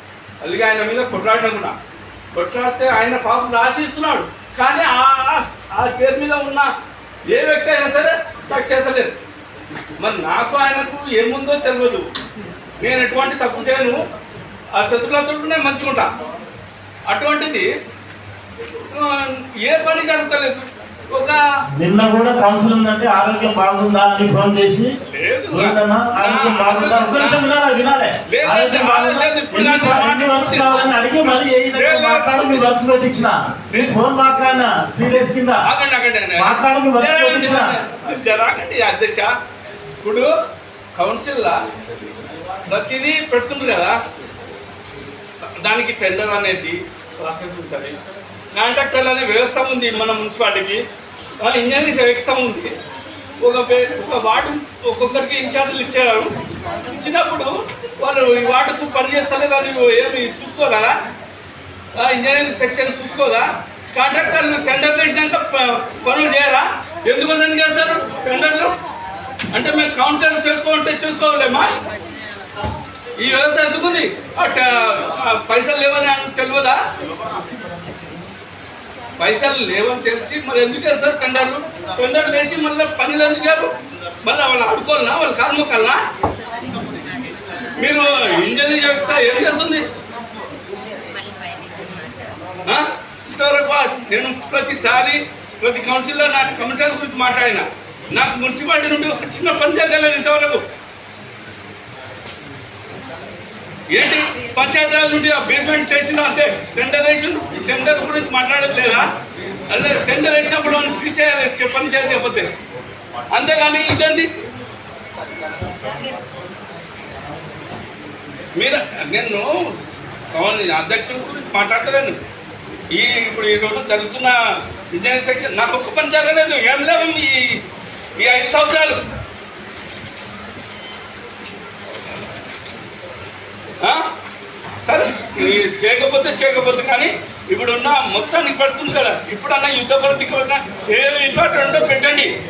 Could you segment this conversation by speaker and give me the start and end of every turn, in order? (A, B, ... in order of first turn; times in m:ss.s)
0:00.4-0:01.8 A
0:02.4-0:06.7 A
0:07.3-0:09.2 A
0:10.0-0:12.1 A
0:12.8-0:14.0 A
0:14.8-0:16.1 A
0:17.1-0:17.7 A
0:18.9-0:21.4 A
0:21.8-0:24.9 B
0:25.1-0:27.5 A
0:25.5-0:35.6 B
0:28.3-0:31.1 A
0:31.7-0:32.7 A
0:33.7-0:34.0 A
0:35.6-0:39.3 A
0:36.4-0:37.8 B
0:40.0-0:40.3 A
0:41.0-0:41.6 A
0:42.7-0:44.0 A
0:45.6-0:47.9 A
0:48.6-0:50.8 A
0:51.4-0:52.7 A
0:53.4-0:56.3 A
0:56.9-1:01.0 A
1:02.0-1:08.7 A
1:09.5-1:11.7 A
1:13.2-1:16.8 A
1:19.2-1:23.7 A
1:24.2-1:26.0 A
1:27.8-1:29.8 A
1:32.7-1:40.6 A
1:43.9-1:49.1 A
1:49.7-1:52.5 A
1:53.3-1:54.3 A
1:58.6-1:59.5 A
2:00.3-2:02.2 A
2:02.9-2:04.4 A
2:04.9-2:07.6 A
2:08.2-2:09.0 A
2:14.9-2:22.3 A